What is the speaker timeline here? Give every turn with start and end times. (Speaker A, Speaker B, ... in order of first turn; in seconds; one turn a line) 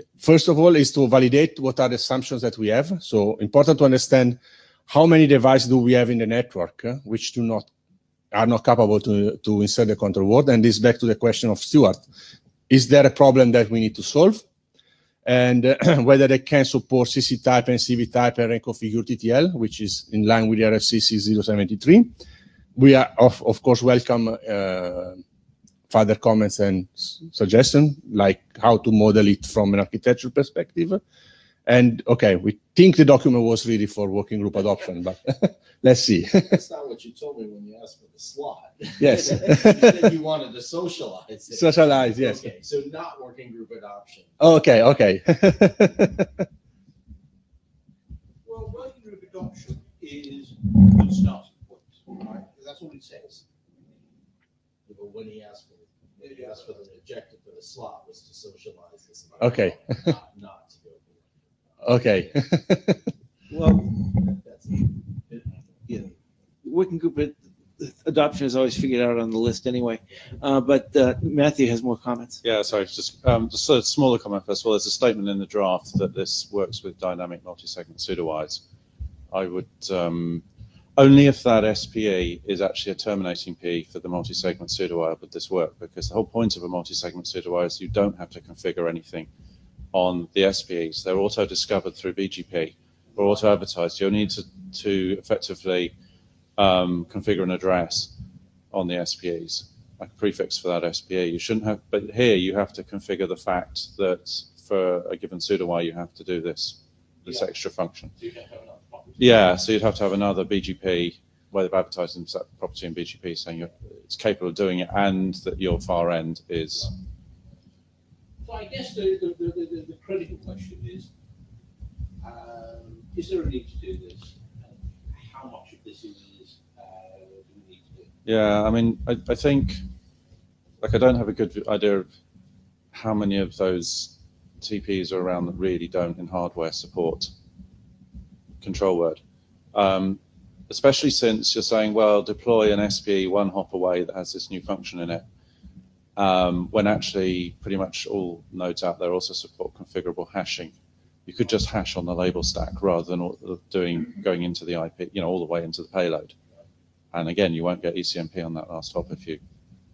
Speaker A: 0.1-7.7
Speaker A: 8.3-12.0
Speaker A: 12.7-14.4
Speaker A: 15.2-22.1
Speaker A: 22.8-25.2
Speaker A: 25.9-31.0
Speaker A: 31.6-36.6
Speaker B: 36.5-44.3
Speaker A: 39.0-40.1
Speaker A: 41.5-42.4
Speaker A: 44.4-46.4
Speaker C: 48.4-53.4
Speaker B: 54.9-61.8
Speaker C: 56.2-56.8
Speaker A: 59.4-60.0
Speaker A: 61.8-63.0
Speaker D: 63.5-63.8
Speaker B: 63.8-66.1
Speaker D: 66.6-72.4
Speaker E: 72.4-78.6
Speaker E: 79.3-80.4
Speaker E: 81.0-89.3
Speaker E: 89.9-95.9
Speaker C: 93.2-93.4
Speaker E: 96.6-98.1
Speaker E: 98.7-108.1
Speaker C: 107.2-107.5
Speaker C: 108.2-109.6
Speaker E: 109.2-116.9
Speaker C: 118.4-121.1
Speaker C: 122.2-128.1
Speaker E: 128.2-129.8
Speaker E: 130.8-132.1
Speaker E: 132.9-137.3
Speaker E: 138.6-139.2
Speaker E: 139.7-145.2
Speaker E: 146.2-156.3
Speaker E: 157.1-159.4